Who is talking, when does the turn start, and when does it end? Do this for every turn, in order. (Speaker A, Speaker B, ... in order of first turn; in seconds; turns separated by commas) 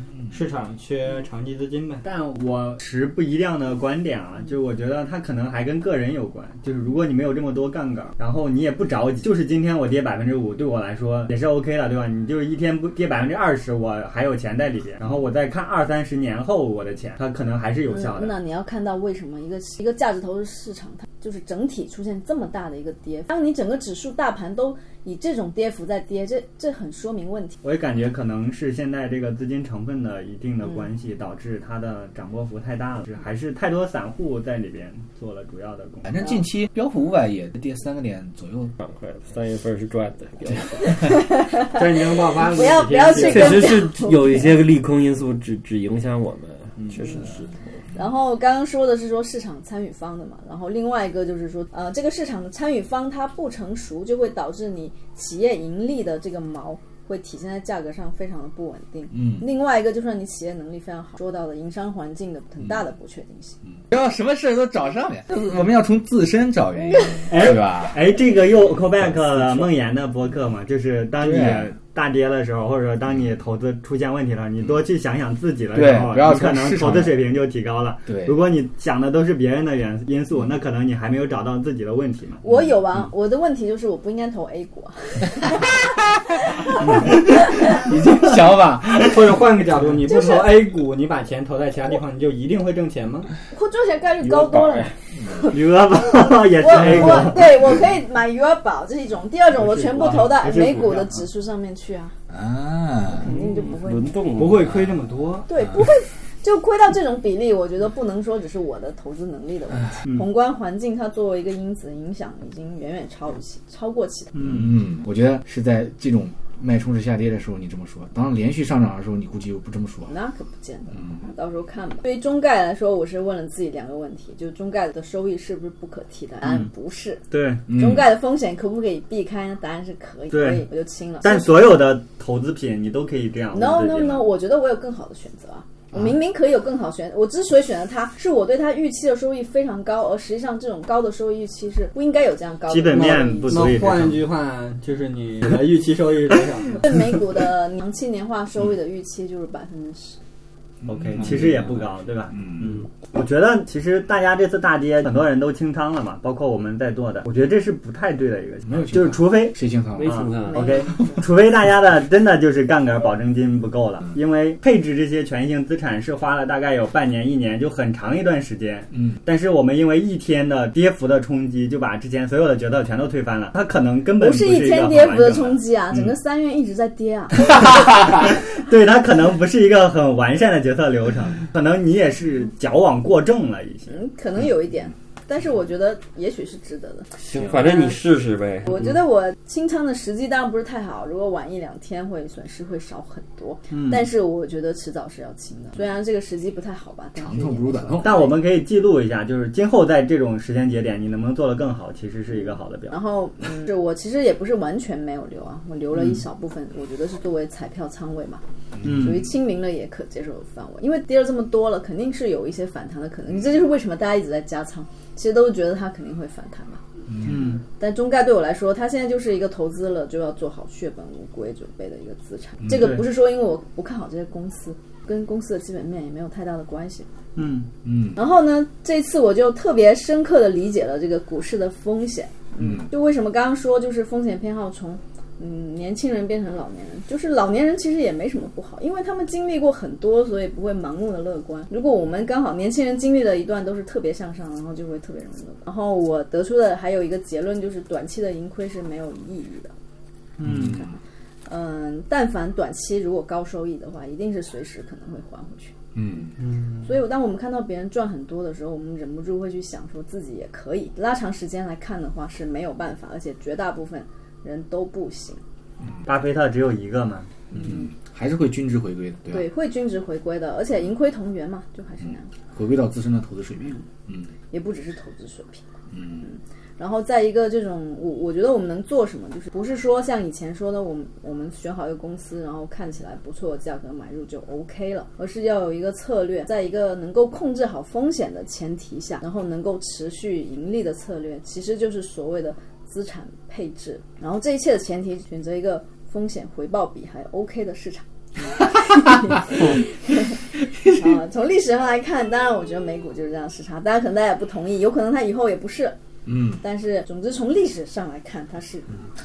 Speaker A: 0.3-2.0, Speaker B: 2.0-18.4, Speaker C: 17.9-27.6, Speaker B: 27.6-36.2, Speaker D: 36.0-38.8, Speaker E: 38.8-41.2, Speaker C: 40.8-44.5, Speaker A: 41.6-43.8, Speaker E: 43.1-47.5, Speaker C: 48.0-63.6, Speaker D: 59.1-59.5, Speaker D: 63.8-68.1, Speaker B: 67.3-82.4, Speaker D: 69.0-69.7, Speaker D: 71.2-71.7, Speaker D: 75.7-77.2, Speaker D: 78.1-78.4, Speaker C: 82.4-87.8, Speaker D: 87.0-89.3, Speaker A: 89.0-93.3, Speaker C: 90.1-90.6, Speaker C: 93.5-95.5, Speaker E: 94.2-94.9, Speaker D: 95.2-95.4, Speaker B: 95.4-97.7, Speaker C: 96.6-102.2, Speaker B: 99.9-101.3, Speaker A: 100.0-100.2, Speaker D: 102.3-103.4, Speaker C: 103.1-104.2, Speaker E: 103.3-104.7, Speaker B: 104.4-105.3, Speaker A: 104.4-105.4, Speaker C: 105.5-114.4, Speaker D: 105.6-105.9, Speaker B: 114.3-114.7, Speaker D: 114.4-120.1, Speaker C: 120.1-131.6, Speaker D: 120.9-121.2, Speaker B: 127.3-127.6, Speaker D: 127.7-128.1, Speaker B: 130.3-130.7, Speaker B: 131.2-134.3, Speaker C: 133.5-143.8, Speaker B: 142.7-144.2, Speaker A: 143.5-146.9, Speaker C: 146.8-150.2, Speaker D: 150.8-151.6, Speaker B: 150.9-176.1, Speaker A: 151.2-151.9, Speaker D: 152.3-152.8, Speaker D: 158.7-160.3, Speaker E: 160.0-160.7, Speaker C: 160.5-161.2, Speaker D: 168.9-169.2, Speaker C: 174.2-177.8, Speaker B: 177.6-184.0, Speaker C: 183.9-188.0, Speaker E: 187.2-188.8, Speaker C: 188.7-198.4, Speaker B: 193.7-194.1, Speaker D: 197.2-198.2, Speaker B: 198.0-203.0, Speaker C: 202.4-208.4, Speaker D: 208.7-209.2, Speaker B: 208.8-209.2, Speaker C: 208.9-216.8, Speaker D: 217.1-217.6, Speaker B: 217.2-217.6, Speaker C: 217.7-227.1, Speaker B: 222.7-223.0, Speaker B: 227.4-227.7, Speaker D: 227.8-228.2, Speaker C: 228.2-249.7, Speaker D: 232.6-232.9, Speaker B: 250.4-250.8, Speaker D: 250.4-251.0, Speaker C: 250.6-250.9, Speaker C: 251.5-255.7, Speaker D: 255.9-256.4, Speaker B: 256.4-256.9, Speaker C: 256.8-265.4, Speaker B: 266.1-267.3, Speaker C: 267.5-267.9, Speaker D: 267.5-269.5, Speaker C: 269.3-272.3, Speaker D: 272.0-274.3, Speaker C: 274.5-275.6, Speaker D: 275.9-276.3, Speaker C: 276.2-306.0, Speaker D: 300.8-301.1, Speaker D: 306.3-306.6, Speaker C: 306.6-309.0